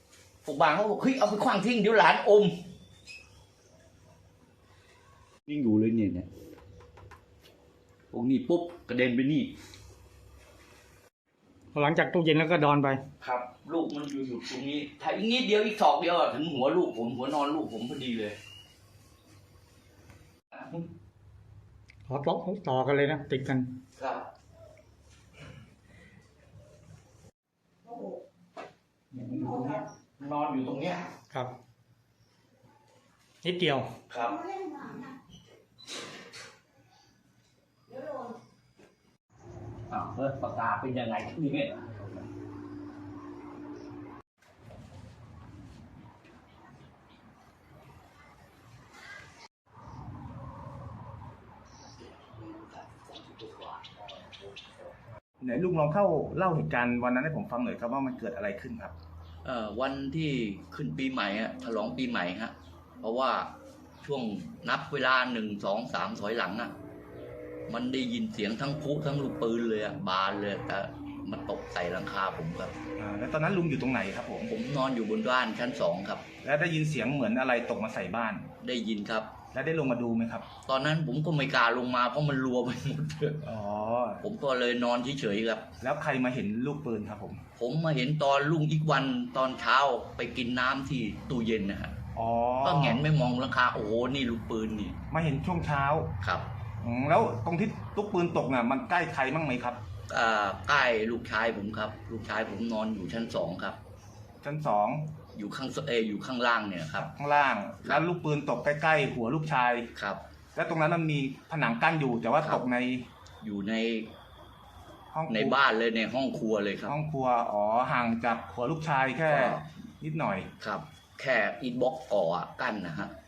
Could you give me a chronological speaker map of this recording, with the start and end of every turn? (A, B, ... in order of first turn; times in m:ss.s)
0:00.4-0:02.6 A
0:05.5-0:06.3 A
0:08.1-0:09.5 A
0:11.7-0:13.0 B
0:13.2-0:18.4 A
0:22.1-0:23.7 B
0:24.0-0:24.3 A
0:29.1-0:31.1 A
0:33.4-0:33.9 B
0:34.1-0:34.5 A
0:39.9-0:42.3 A
0:52.2-0:54.1 A
0:55.4-0:58.9 C
0:59.4-1:06.7 A
1:07.7-1:12.7 A
1:13.0-1:14.5 C
1:14.4-1:16.2 A
1:16.4-1:18.5 C
1:18.6-1:19.3 A
1:19.5-1:20.5 C
1:20.6-1:23.4 A
1:23.4-1:24.2 C
1:24.2-1:25.7 A
1:25.8-1:27.4 C
1:27.6-1:31.9 A
1:32.1-1:33.0 C
1:32.6-1:35.0 A
1:35.1-1:36.1 C
1:36.2-1:36.5 A
1:36.8-1:39.8 C
1:40.1-1:43.8 A
1:44.4-1:45.1 C
1:45.3-1:47.1 A
1:47.0-1:49.9 C
1:49.9-1:50.2 A
1:50.5-1:53.1 C
1:53.4-1:54.1 A
1:55.1-1:55.6 C
1:55.3-1:57.0 A
1:56.9-2:00.5 C
1:59.2-1:59.6 A
2:00.6-2:03.1 A